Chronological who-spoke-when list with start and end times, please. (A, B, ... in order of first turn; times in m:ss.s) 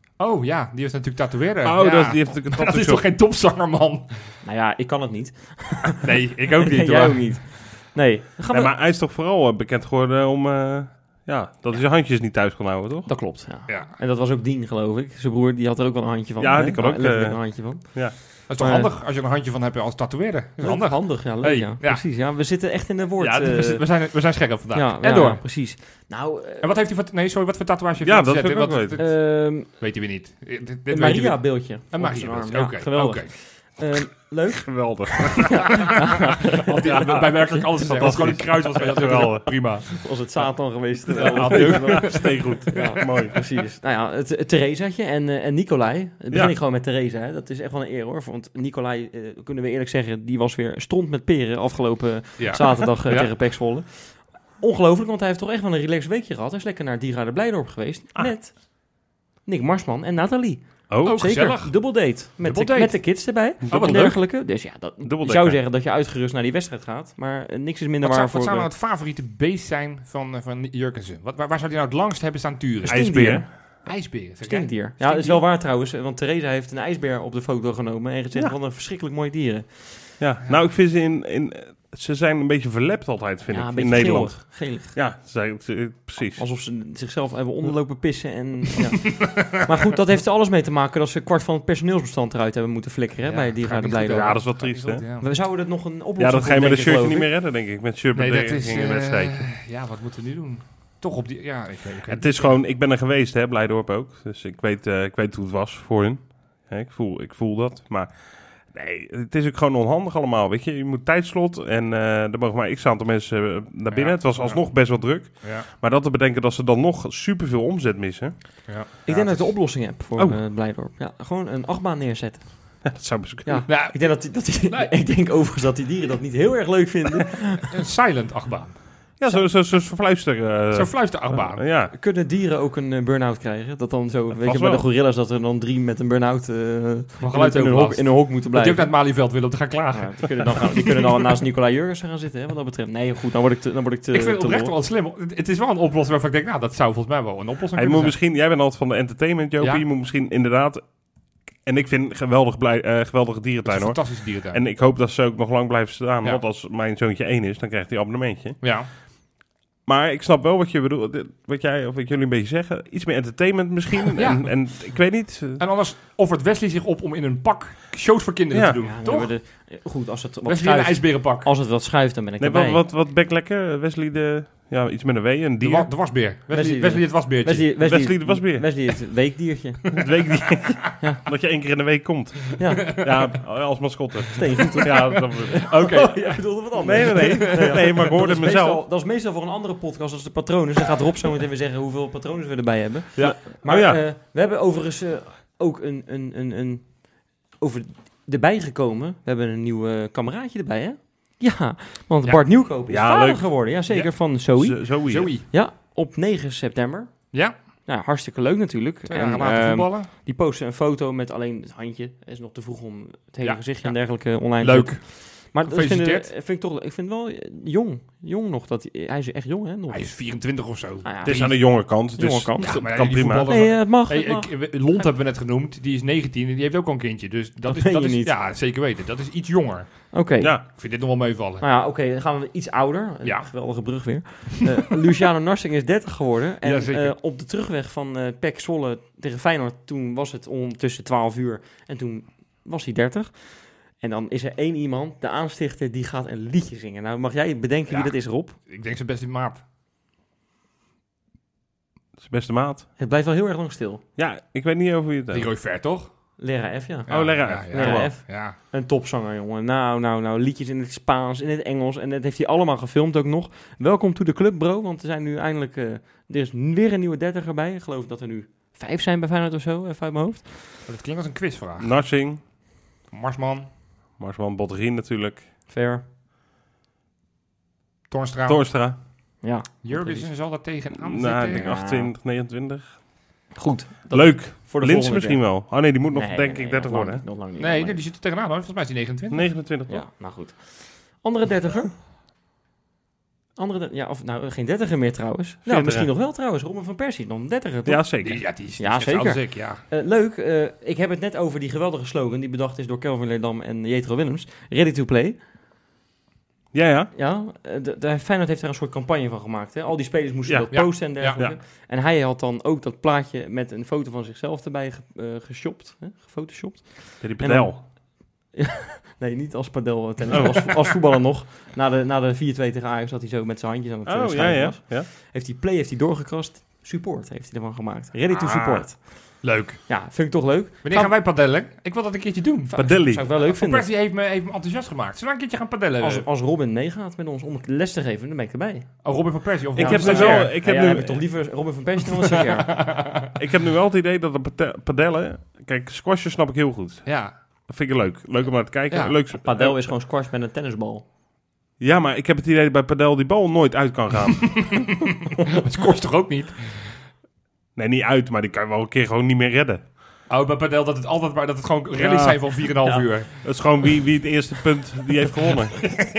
0:00.2-0:04.4 A
0:01.6-0:03.1 B
0:04.4-0:06.1 C
0:06.0-0:07.6 A
0:06.7-0:08.7 C
0:08.5-0:13.3 B
0:13.0-0:18.9 C
0:13.7-0:14.0 A
0:16.4-0:18.2 B
0:18.5-0:22.6 A
0:20.6-0:26.8 C
0:23.2-0:25.6 A
0:26.6-0:33.8 A
0:28.0-0:29.0 B
0:29.0-0:29.8 C
0:30.9-0:37.6 C
0:34.7-0:35.8 B
0:36.6-0:40.0 A
0:36.9-0:39.9 B
0:40.0-1:08.7 C
0:41.1-0:43.5 B
0:41.2-0:42.6 A
0:52.4-0:53.4 A
1:00.9-1:01.4 B
1:01.0-1:04.2 A
1:03.6-1:05.6 B
1:08.0-1:15.4 A
1:12.8-1:20.2 C
1:12.9-1:13.5 B
1:20.2-1:26.6 B
1:23.5-1:25.1 C
1:26.4-1:34.6 C
1:33.2-1:35.3 A
1:34.1-1:35.1 B
1:35.2-1:37.3 C
1:36.2-1:39.4 B
1:38.1-1:42.6 A
1:42.1-2:00.4 B
1:53.9-1:55.7 A
1:58.7-1:59.4 A
1:59.0-2:07.6 C
2:02.8-2:03.7 B
2:03.7-2:05.1 A
2:07.6-2:08.8 A
2:09.2-2:11.9 B
2:09.2-2:09.5 C
2:10.7-2:11.7 A
2:11.9-2:19.0 C
2:14.4-2:14.8 B
2:17.2-2:21.0 A
2:19.9-2:24.7 C
2:24.1-2:28.2 A
2:27.8-2:38.7 B
2:29.6-2:29.8 A
2:33.7-2:34.6 A
2:38.6-2:38.9 A
2:39.8-2:45.6 B
2:44.2-2:49.6 A
2:48.5-2:48.8 B
2:48.8-2:52.8 C
2:50.4-2:51.5 A
2:52.4-2:55.9 B
2:55.6-2:58.0 A
2:56.5-3:00.1 C
2:57.8-2:59.2 B
3:00.0-3:05.7 B
3:02.6-3:03.3 C
3:04.4-3:45.0 C
3:05.6-3:07.8 A
3:06.8-3:08.9 B
3:13.2-3:14.0 B
3:22.2-3:22.5 A
3:22.9-3:23.7 B
3:23.9-3:24.4 A
3:24.5-3:25.3 B
3:25.1-3:25.5 A
3:27.3-3:27.6 A
3:29.1-3:30.1 A
3:33.4-3:36.3 A
3:39.9-3:41.8 A
3:41.2-3:43.6 B
3:42.6-3:51.7 A
3:47.7-3:48.3 C
3:50.1-3:50.8 C
3:50.4-3:50.6 B
3:51.6-4:08.6 C
3:53.2-3:54.3 A
3:56.6-3:57.1 A
4:07.9-4:09.6 A
4:12.2-4:12.9 B
4:13.0-4:14.0 C
4:14.2-4:15.5 B
4:15.3-4:16.4 A
4:16.4-4:30.7 C
4:17.1-4:18.6 A
4:17.1-4:18.1 B
4:30.8-4:32.5 A
4:31.8-4:32.4 B
4:33.1-4:33.7 A
4:34.2-4:35.5 B
4:35.7-4:36.0 C
4:38.1-4:39.0 A
4:38.5-4:39.0 B
4:39.4-4:40.3 C
4:39.8-4:41.8 A
4:40.9-4:43.2 B
4:41.5-4:42.1 C
4:43.6-4:48.0 C
4:44.1-4:47.2 B
4:47.6-4:49.6 A
4:49.3-4:50.1 B
4:49.9-4:52.0 C
4:53.6-5:05.4 C
4:55.6-4:56.1 B
4:57.8-4:58.5 B
4:58.2-4:59.8 A
5:06.7-5:07.1 B
5:07.1-5:31.2 C
5:10.4-5:11.6 B
5:10.7-5:11.4 A
5:17.2-5:17.8 B
5:24.0-5:25.1 B
5:28.3-5:30.0 A
5:30.8-5:36.3 A
5:32.7-5:33.9 C
5:32.8-5:33.3 B
5:36.0-5:42.8 C
5:39.0-5:40.6 A
5:39.7-5:41.2 B
5:42.7-5:43.3 A
5:43.4-5:49.8 B
5:47.0-5:47.4 A
5:48.9-5:49.2 A
5:49.3-5:51.0 C
5:51.8-5:55.0 B
5:55.6-5:57.0 A
5:57.7-5:59.9 B
6:00.3-6:03.3 A
6:02.0-6:02.6 B
6:02.8-6:03.1 C
6:03.4-6:06.0 B